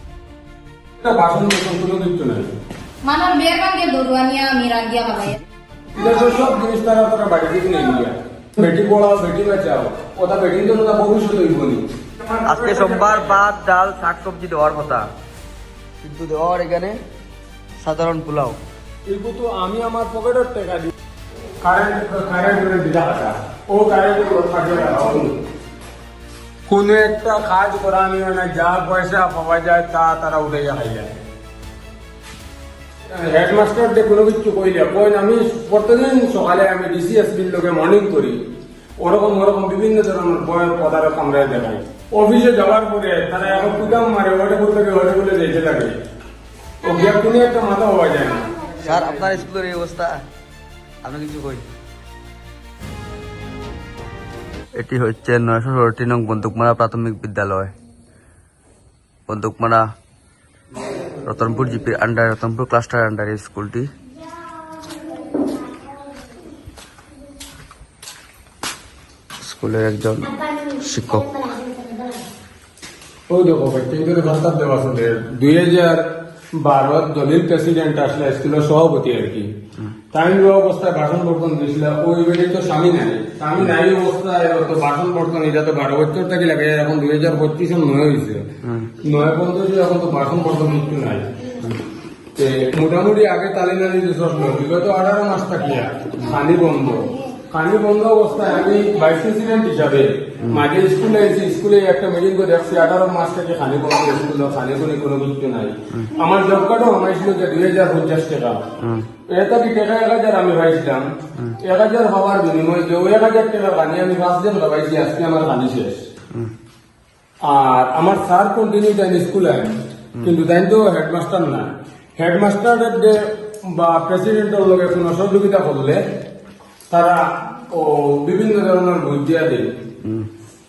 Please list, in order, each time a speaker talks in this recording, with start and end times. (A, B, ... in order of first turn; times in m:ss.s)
0:01.0-0:02.5 A
0:03.0-0:05.4 B
0:06.0-0:13.4 A
0:12.5-0:15.1 C
0:16.0-0:17.0 C
0:17.8-0:18.6 C
0:19.1-0:20.9 A
0:21.6-0:25.4 A
0:26.7-0:31.2 A
0:33.1-0:38.4 A
0:39.0-0:46.0 A
0:46.8-0:49.4 A
0:48.8-0:50.2 C
0:51.0-0:51.7 C
0:54.8-0:57.7 C
0:59.3-0:59.8 C
1:01.2-1:03.9 C
1:09.4-1:11.5 C
1:13.3-1:16.0 A
1:16.6-1:19.5 A
1:20.1-1:28.5 A
1:28.6-1:28.9 C
1:29.0-1:31.3 A
1:32.4-1:48.6 A
1:48.8-1:49.1 C
1:49.3-1:51.1 A
1:51.6-1:56.0 A
1:57.4-2:03.2 A
2:03.7-2:06.0 A
2:06.9-2:09.7 A